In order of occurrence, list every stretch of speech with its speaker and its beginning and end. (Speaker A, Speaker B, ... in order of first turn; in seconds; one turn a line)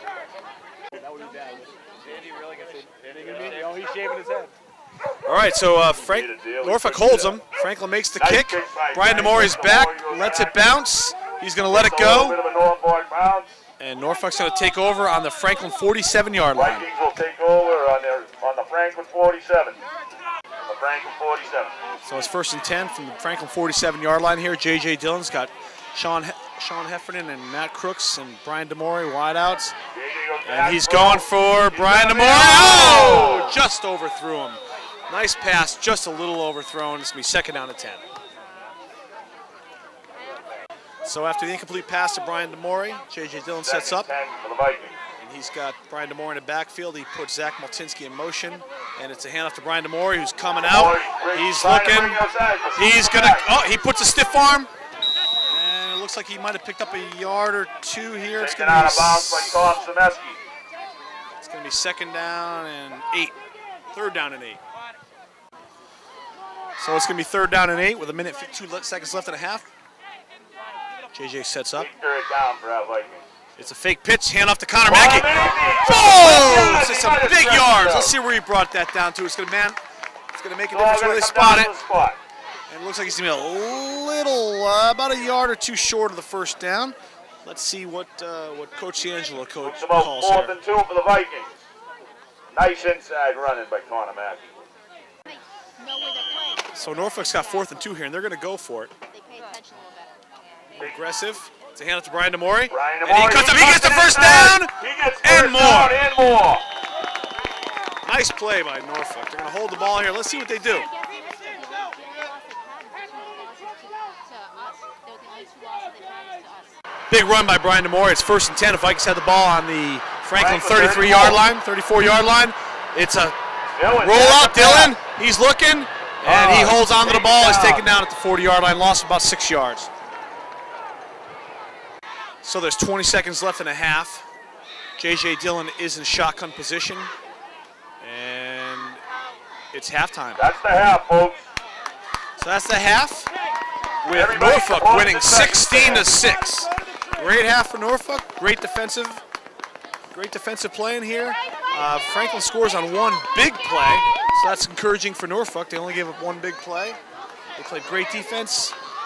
Speaker A: 1.0-1.8
Speaker A: 2.4-4.5
Speaker B: 3.2-3.6
Speaker A: 5.2-12.4
Speaker B: 5.9-7.4
Speaker B: 8.2-10.6
Speaker B: 11.7-13.6
Speaker A: 13.8-16.9
Speaker B: 16.6-19.8
Speaker B: 20.6-21.8
Speaker A: 22.0-29.8
Speaker B: 29.9-33.6
Speaker A: 30.4-38.1
Speaker A: 41.0-44.1
Speaker B: 43.6-45.0
Speaker A: 45.2-52.2
Speaker B: 50.6-53.5
Speaker A: 52.8-54.7
Speaker A: 55.4-59.8
Speaker B: 58.4-60.4
Speaker A: 61.4-63.4
Speaker A: 63.9-64.6
Speaker A: 66.8-69.7
Speaker A: 71.1-71.9
Speaker B: 71.8-73.3
Speaker A: 73.6-79.8
Speaker B: 74.8-78.2
Speaker A: 80.3-81.7
Speaker B: 80.7-82.2
Speaker A: 82.7-90.6
Speaker B: 89.6-91.6
Speaker B: 92.5-94.6
Speaker C: 95.8-96.7
Speaker A: 96.7-98.9
Speaker C: 99.1-100.1
Speaker A: 100.8-106.0
Speaker B: 102.7-106.7
Speaker A: 108.0-110.9
Speaker C: 110.9-116.7
Speaker A: 117.1-123.4
Speaker B: 120.4-121.4
Speaker B: 123.8-125.0
Speaker A: 123.9-129.9
Speaker B: 126.2-127.9
Speaker A: 132.4-134.3
Speaker A: 135.0-137.1
Speaker A: 138.0-139.0
Speaker A: 139.7-140.4
Speaker B: 140.4-141.4
Speaker A: 142.4-143.3
Speaker A: 144.0-149.2
Speaker B: 144.1-146.1
Speaker A: 150.1-157.0
Speaker A: 157.6-158.8